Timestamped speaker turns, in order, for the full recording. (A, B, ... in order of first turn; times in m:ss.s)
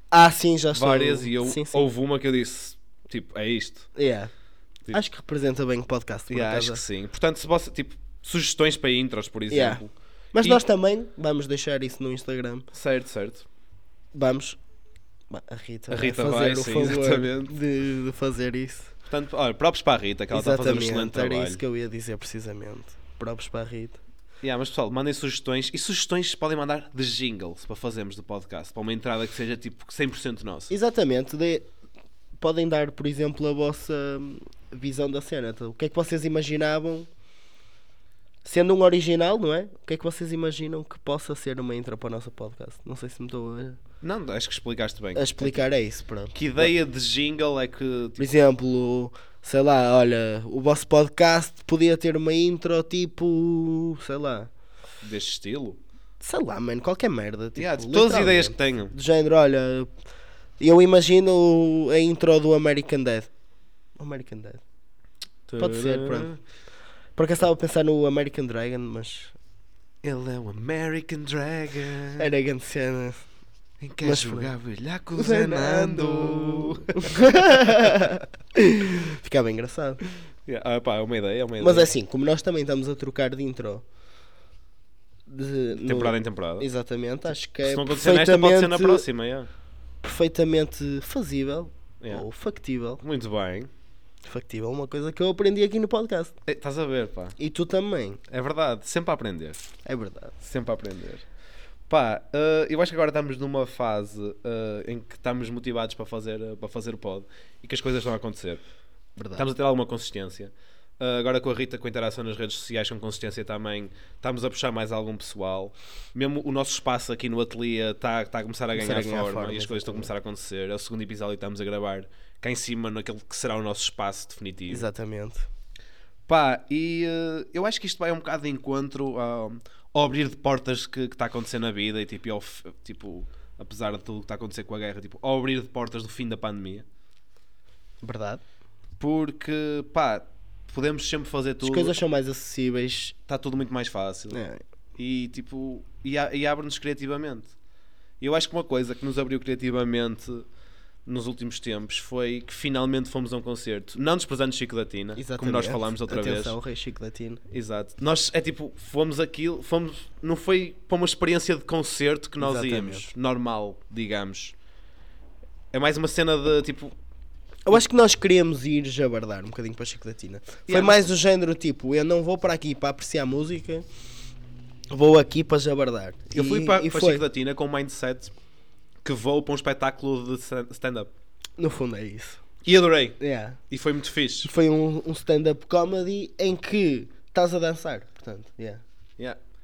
0:00.1-0:01.9 A
0:00.7-0:03.9 B
0:04.0-0:04.3 A
0:04.9-0:06.8 A
0:06.3-0:09.9 B
0:09.5-0:09.8 A
0:10.3-0:12.7 A
0:12.7-0:13.5 B
0:14.1-0:14.6 A
0:15.3-0:18.9 A
0:15.9-0:17.5 B
0:19.1-0:21.6 B
0:20.3-0:24.0 A
0:24.4-0:30.7 B
0:30.7-0:31.7 A
0:32.4-0:37.1 A
0:38.4-0:43.8 A
0:44.0-0:45.6 B
0:45.2-0:46.7 A
0:46.3-0:48.3 B
0:48.2-0:54.5 A
0:55.0-0:55.8 B
0:56.2-0:59.9 A
0:57.6-0:58.9 B
1:00.6-1:03.3 A
1:04.0-1:04.6 A
1:05.5-1:06.4 B
1:05.6-1:06.3 A
1:07.2-1:09.4 A
1:10.0-1:12.3 B
1:12.2-1:13.2 A
1:13.8-1:18.0 B
1:14.0-1:14.5 A
1:15.2-1:20.0 A
1:20.5-1:21.9 B
1:21.6-1:23.8 A
1:25.3-1:29.0 A
1:25.8-1:26.7 B
1:27.6-1:29.5 B
1:30.0-1:33.0 A
1:33.0-1:33.7 B
1:34.2-1:36.3 A
1:36.5-1:37.4 B
1:37.4-1:38.2 A
1:38.3-1:39.6 B
1:39.8-1:40.4 A
1:40.4-1:41.3 B
1:41.9-1:48.6 B
1:49.2-1:49.5 A
1:49.4-2:04.9 B
1:58.7-2:00.1 A
2:04.7-2:05.5 A
2:06.3-2:16.8 B
2:18.0-2:18.4 A
2:19.0-2:22.0 B
2:21.6-2:23.2 A
2:23.3-2:24.4 B
2:24.3-2:24.6 A
2:25.0-2:27.5 B
2:28.2-2:30.5 B
2:31.1-2:36.6 B
2:35.2-2:37.4 A
2:37.5-2:44.6 B
2:42.4-2:43.1 A
2:45.7-2:46.9 B
2:47.7-2:53.8 A
2:50.7-2:51.1 B
2:54.9-2:57.2 A
2:56.3-2:58.3 B
2:59.0-3:01.1 B
3:01.6-3:02.4 A
3:02.6-3:03.2 B
3:03.2-3:03.6 A
3:03.7-3:04.5 B
3:04.4-3:08.8 A